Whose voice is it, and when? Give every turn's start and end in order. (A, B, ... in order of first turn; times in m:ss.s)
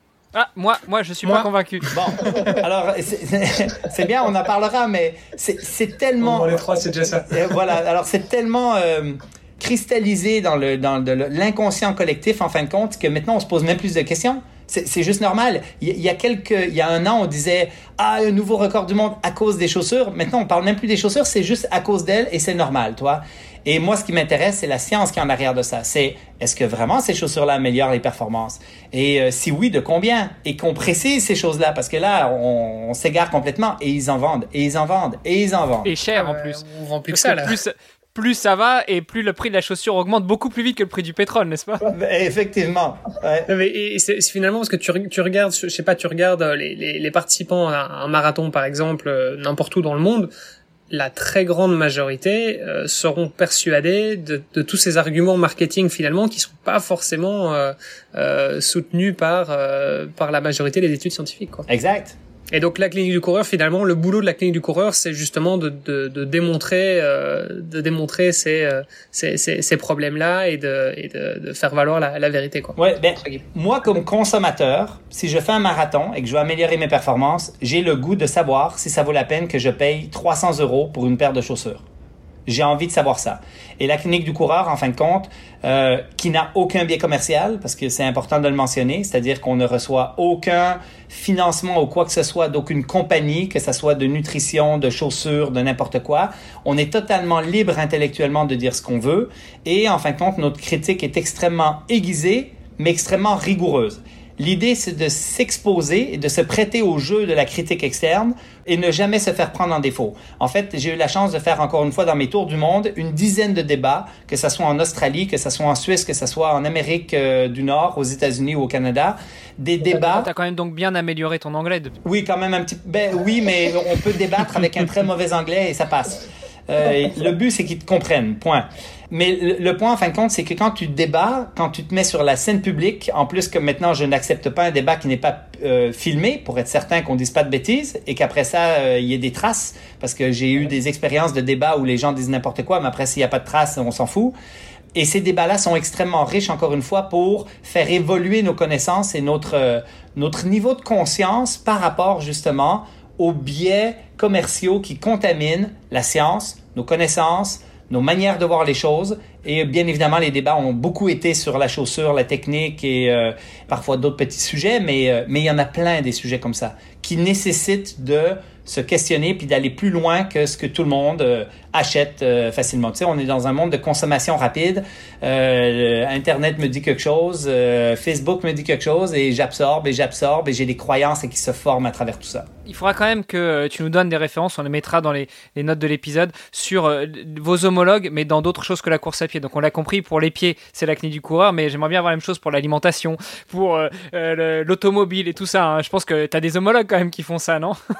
0:00.3-0:02.0 A
0:01.9-0:35.9 B
0:06.2-0:07.4 C
0:35.8-0:41.9 A
0:36.1-0:37.5 C
0:41.9-0:43.5 B
0:43.5-0:50.3 C
0:50.9-1:01.7 C
1:01.7-1:02.2 B
1:02.5-1:12.8 C
1:12.8-1:21.8 B
1:22.4-2:00.3 B
2:00.0-2:02.0 A
2:02.0-2:24.3 B
2:24.9-3:02.5 B
3:02.6-3:17.8 A